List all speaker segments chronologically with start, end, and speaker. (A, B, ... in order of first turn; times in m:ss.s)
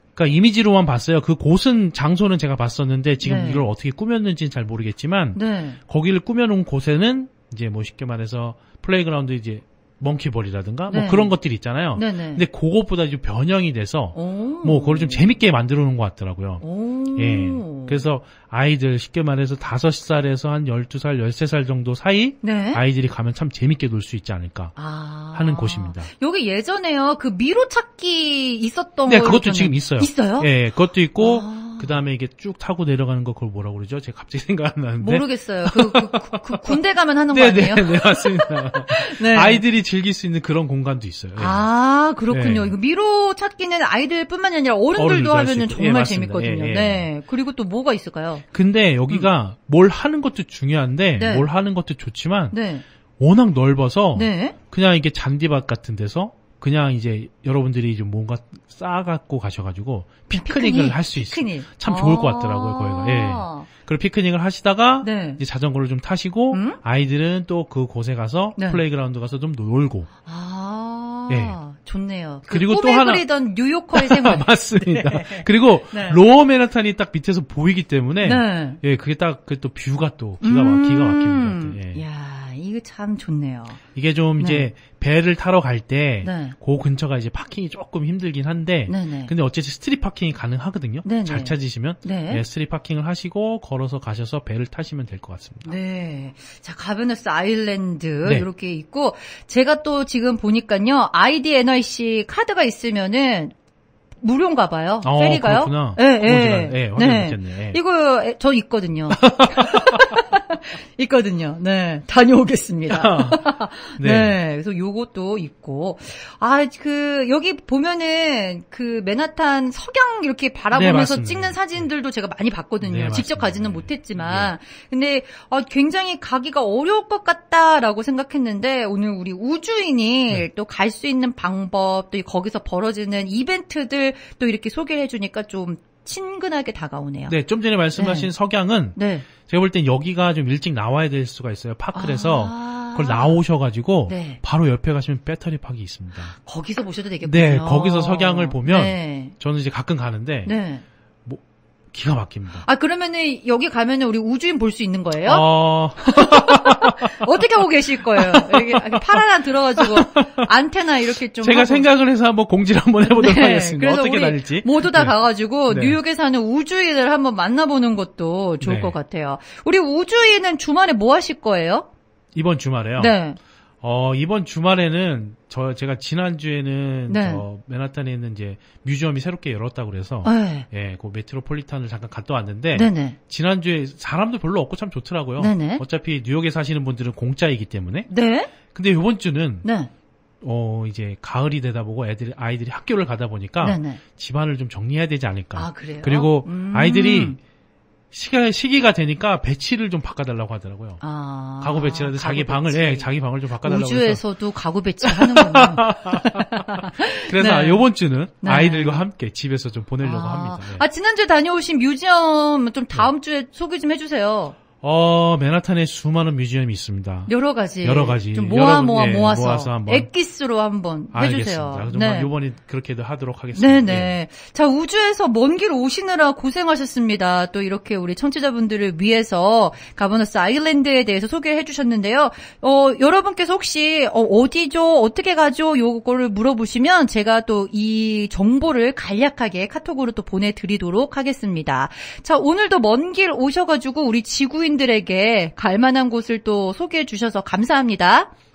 0:00.2-0:24.7 A
0:03.2-0:03.6 B
0:05.3-0:05.8 B
0:10.9-0:11.3 B
0:11.9-0:12.4 B
0:14.1-0:15.2 B
0:16.6-0:18.0 B
0:22.4-0:22.8 B
0:24.8-0:30.5 B
0:25.3-0:26.1 A
0:29.0-0:36.8 A
0:31.2-0:31.9 B
0:35.0-0:39.6 B
0:37.3-0:41.6 A
0:41.4-0:48.4 B
0:42.3-0:42.7 A
0:45.0-0:47.1 A
0:48.5-0:52.6 A
0:51.2-0:51.5 B
0:52.5-0:52.8 B
0:53.2-1:10.1 A
0:54.1-0:54.5 B
1:00.3-1:03.7 B
1:05.0-1:05.4 B
1:06.5-1:06.8 B
1:08.6-1:08.8 B
1:10.2-1:16.2 B
1:11.3-1:11.6 A
1:12.5-1:13.2 A
1:13.9-1:22.0 A
1:18.2-1:18.8 B
1:20.4-1:23.8 B
1:23.9-1:35.7 A
1:24.4-1:24.7 B
1:26.2-1:26.6 B
1:28.9-1:29.3 B
1:31.0-1:32.4 B
1:35.6-1:43.5 B
1:44.2-2:17.3 B
1:45.0-1:47.8 A
1:49.1-1:50.0 A
1:52.9-1:53.5 A
1:54.0-1:54.4 A
2:00.7-2:01.8 A
2:02.8-2:04.5 A
2:17.3-2:26.3 A
2:18.0-2:18.3 B
2:19.0-2:19.3 B
2:21.9-2:23.4 B
2:24.1-2:24.4 B
2:26.3-2:29.3 B
2:27.2-2:30.5 A
2:30.4-2:30.8 B
2:31.9-2:32.6 A
2:32.6-2:35.4 B
2:35.2-2:37.1 A
2:36.0-2:41.9 B
2:38.2-2:39.2 A
2:39.8-2:40.5 A
2:41.4-2:45.2 A
2:43.1-2:51.9 B
2:45.7-2:46.0 A
2:48.6-2:49.0 A
2:52.3-2:53.2 A
2:53.0-2:53.4 B
2:53.8-3:08.1 A
2:57.1-2:57.4 B
3:00.2-3:00.7 B
3:02.7-3:03.2 B
3:05.4-3:05.8 B
3:08.1-3:08.5 B
3:08.7-3:09.6 A
3:09.6-3:09.9 B
3:10.4-3:17.4 A
3:13.6-3:14.0 B
3:15.5-3:17.4 B
3:18.1-3:21.0 A
3:21.0-3:27.8 B
3:21.6-3:24.2 A
3:25.0-3:30.8 A
3:28.4-3:29.0 B
3:30.0-3:34.6 B
3:34.8-3:40.1 A
3:37.3-3:42.3 B
3:41.1-3:44.2 A
3:43.5-4:08.3 B